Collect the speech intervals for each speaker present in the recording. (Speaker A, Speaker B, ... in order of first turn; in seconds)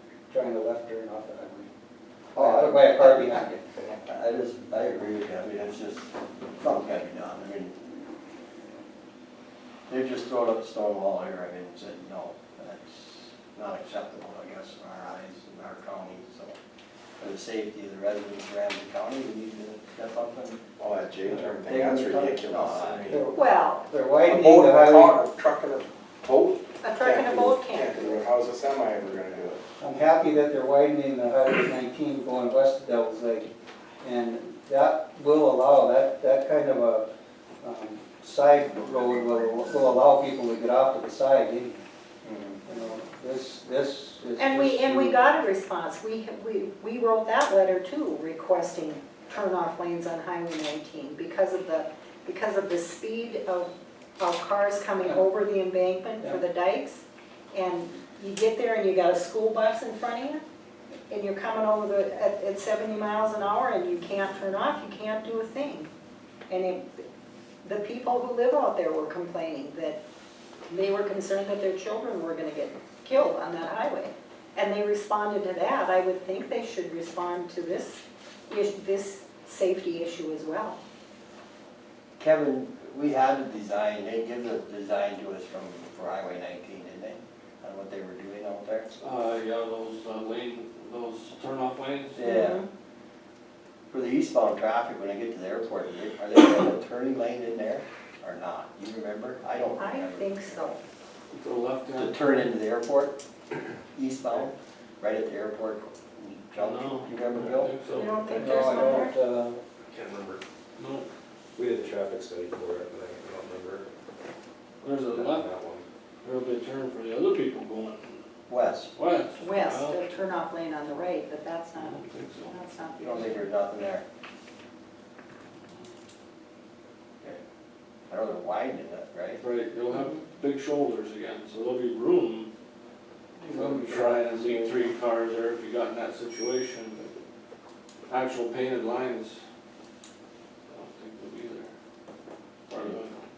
Speaker A: 0.3-1.7, 2.4-3.6, 21.7-22.0, 23.1-25.2, 29.8-33.5, 34.0-37.1, 37.6-41.9, 42.6-45.2, 108.3-109.6, 133.4-134.9
Speaker B: 2.4-7.8, 9.9-16.6, 17.2-20.7, 21.3-23.2, 42.2-42.6, 82.2-88.9, 92.1-92.6, 93.9-100.8, 101.9-103.2, 103.9-107.8, 118.5-118.9, 123.0-124.0, 128.1-129.4
Speaker C: 20.8-23.3, 24.2-29.6
Speaker D: 23.3-23.9, 26.8-28.2, 44.4-60.4, 61.1-65.9, 66.5-67.0, 67.6-70.0, 70.7-80.8, 92.3-92.7, 99.8-100.8, 107.9-109.2, 119.4-123.4
Speaker E: 89.0-92.2, 101.3-102.5, 106.6-108.7, 110.8-111.1, 114.8-115.5, 116.2-118.3, 118.9-120.0, 121.8-122.6, 129.4-132.5, 133.5-137.1, 138.1-139.4, 140.7-141.7, 142.7-143.2
Speaker F: 109.8-110.4, 111.5-113.9, 115.1-115.8